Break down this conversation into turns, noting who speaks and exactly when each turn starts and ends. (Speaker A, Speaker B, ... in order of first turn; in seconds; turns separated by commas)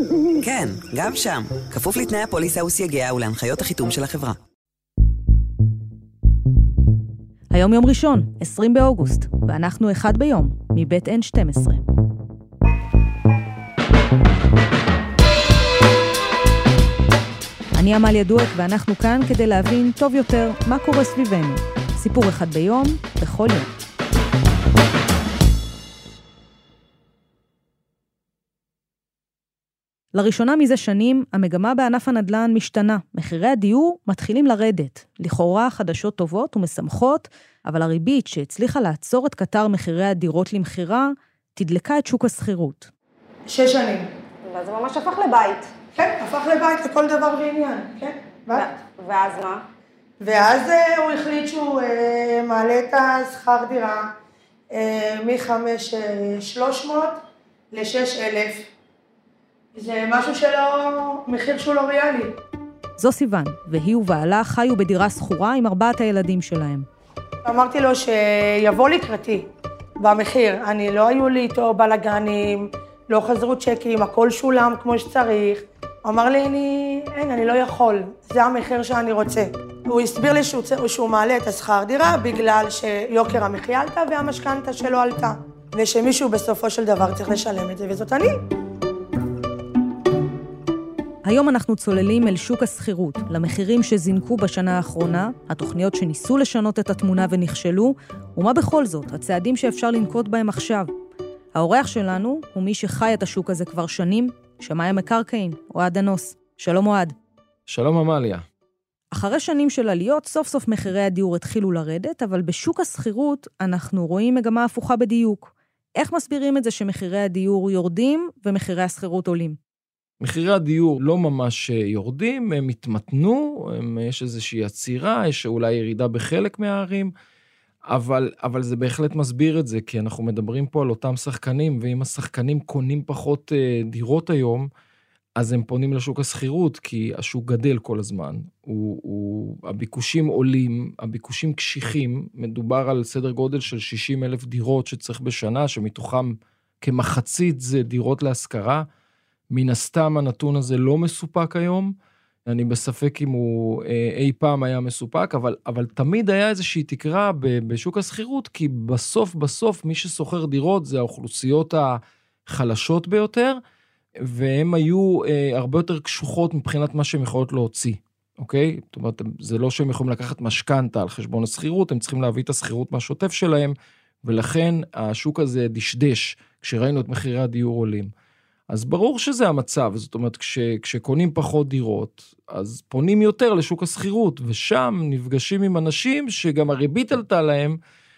Speaker A: 0.4-4.4, Speaker B: 7.5-11.8, Speaker B: 17.7-23.7, Speaker B: 30.1-42.9, Speaker C: 43.5-44.1, Speaker D: 44.5-45.7, Speaker C: 45.9-48.7, Speaker D: 48.6-49.6, Speaker C: 50.2-54.1, Speaker C: 54.7-57.2, Speaker C: 57.7-58.7, Speaker C: 59.7-62.3, Speaker B: 63.0-66.9, Speaker C: 67.4-69.5, Speaker C: 70.0-88.4, Speaker B: 91.2-100.9, Speaker B: 101.5-107.2, Speaker E: 107.7-108.4, Speaker B: 109.1-119.6, Speaker E: 120.2-127.1, Speaker E: 127.9-134.7, Speaker E: 135.4-148.8, Speaker E: 149.5-151.9, Speaker E: 152.5-163.6, Speaker E: 164.2-178.1, Speaker E: 178.7-187.8